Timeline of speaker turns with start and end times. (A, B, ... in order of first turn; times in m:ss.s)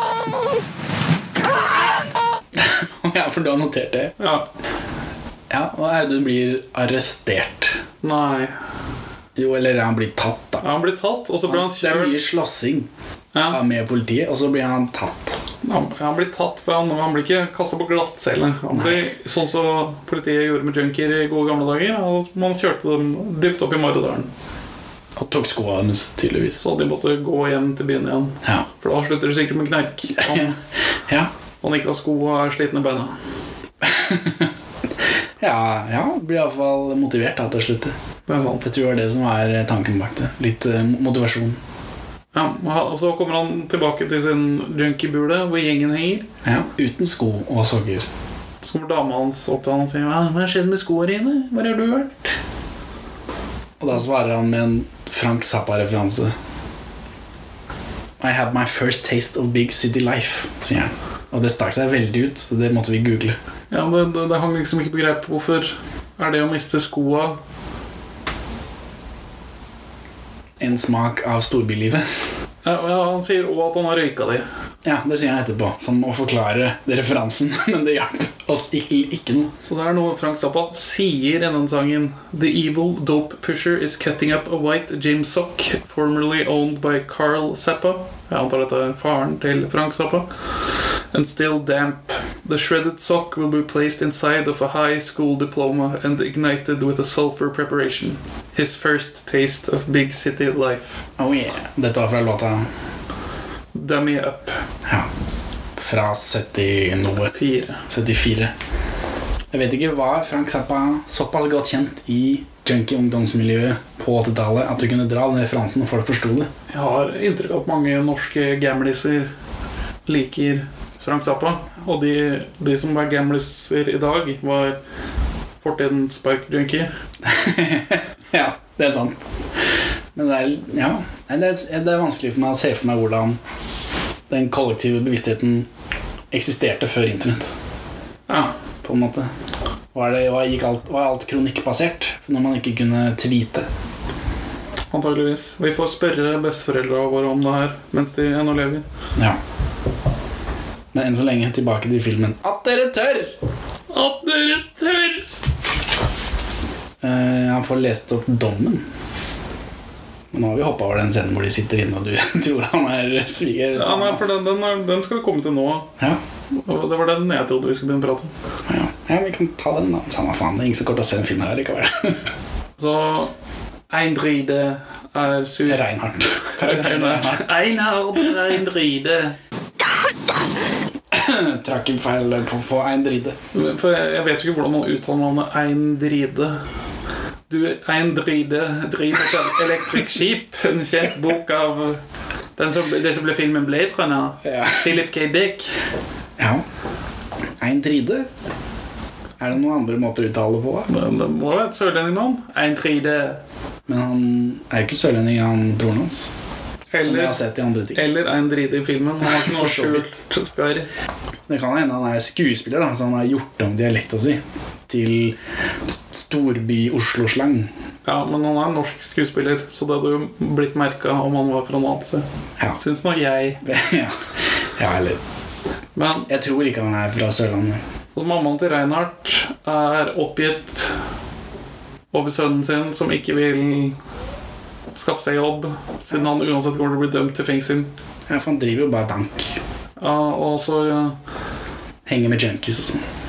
0:02.5-0:04.1 A
0:04.2-0:04.5 B
0:05.5-0:07.8 A
0:08.0-0:08.5 B
0:09.4-0:10.6 A
0:10.6-0:12.2 B
0:11.5-0:12.9 A
0:13.3-0:13.6 B
0:13.5-0:15.4 A
0:15.6-0:24.3 B
0:18.7-0:19.1 A
0:25.2-0:26.6 A
0:26.6-0:30.6 B
0:30.2-0:30.5 A
0:31.6-0:33.2 B
0:33.8-0:34.5 A
0:35.4-0:37.9 A
0:38.3-0:38.6 B
0:38.6-0:41.6 A
0:42.3-0:46.3 B
0:46.4-0:48.0 A
0:48.6-0:52.3 B
0:53.8-0:56.3 A
0:58.2-1:03.4 A
1:03.7-1:07.4 B
1:10.6-1:12.0 A
1:12.6-1:14.4 B
1:14.8-1:19.5 A
1:19.6-1:30.3 B
1:31.1-1:41.0 B
1:41.2-1:42.7 A
1:43.7-1:44.6 B
1:45.8-1:47.3 A
1:47.3-1:47.8 B
1:47.9-1:48.5 A
1:49.5-1:56.5 A
1:56.7-1:59.3 B
2:00.0-2:04.8 B
2:05.6-2:06.9 B
2:07.2-2:09.2 A
2:10.1-2:13.4 A
2:14.3-2:15.7 A
2:16.3-2:17.5 A
2:18.3-2:18.5 B
2:18.8-2:19.3 A
2:19.9-2:23.7 A
2:24.9-2:28.8 B
2:30.9-2:33.4 A
2:33.9-2:35.2 B
2:37.0-2:38.8 A
2:40.3-2:44.3 A
2:43.7-2:45.9 B
2:46.5-2:48.3 B
2:48.7-2:52.2 A
2:52.8-2:53.3 B
2:53.9-2:55.8 B
2:55.7-2:57.6 A
2:56.6-2:59.4 B
3:01.1-3:03.4 A
3:03.5-3:06.6 B
3:07.5-3:12.0 B
3:12.6-3:15.7 B
3:14.4-3:14.9 A
3:16.4-3:16.6 A
3:17.6-3:18.3 A
3:19.4-3:20.9 A
3:20.9-3:23.4 B
3:23.9-3:26.3 A
3:26.9-3:27.4 B
3:27.0-3:28.0 A
3:27.9-3:30.9 B
3:29.2-3:30.0 A
3:31.5-3:35.4 A
3:35.9-3:37.7 A
3:38.0-3:43.6 B
3:43.6-3:44.2 A
3:44.8-3:45.2 A
3:45.9-3:46.3 B
3:46.3-3:47.8 A
3:48.1-3:51.0 B
3:52.1-3:54.0 B
3:54.9-3:57.9 B
3:58.3-3:59.6 A
4:00.0-4:01.2 B
4:02.0-4:03.0 A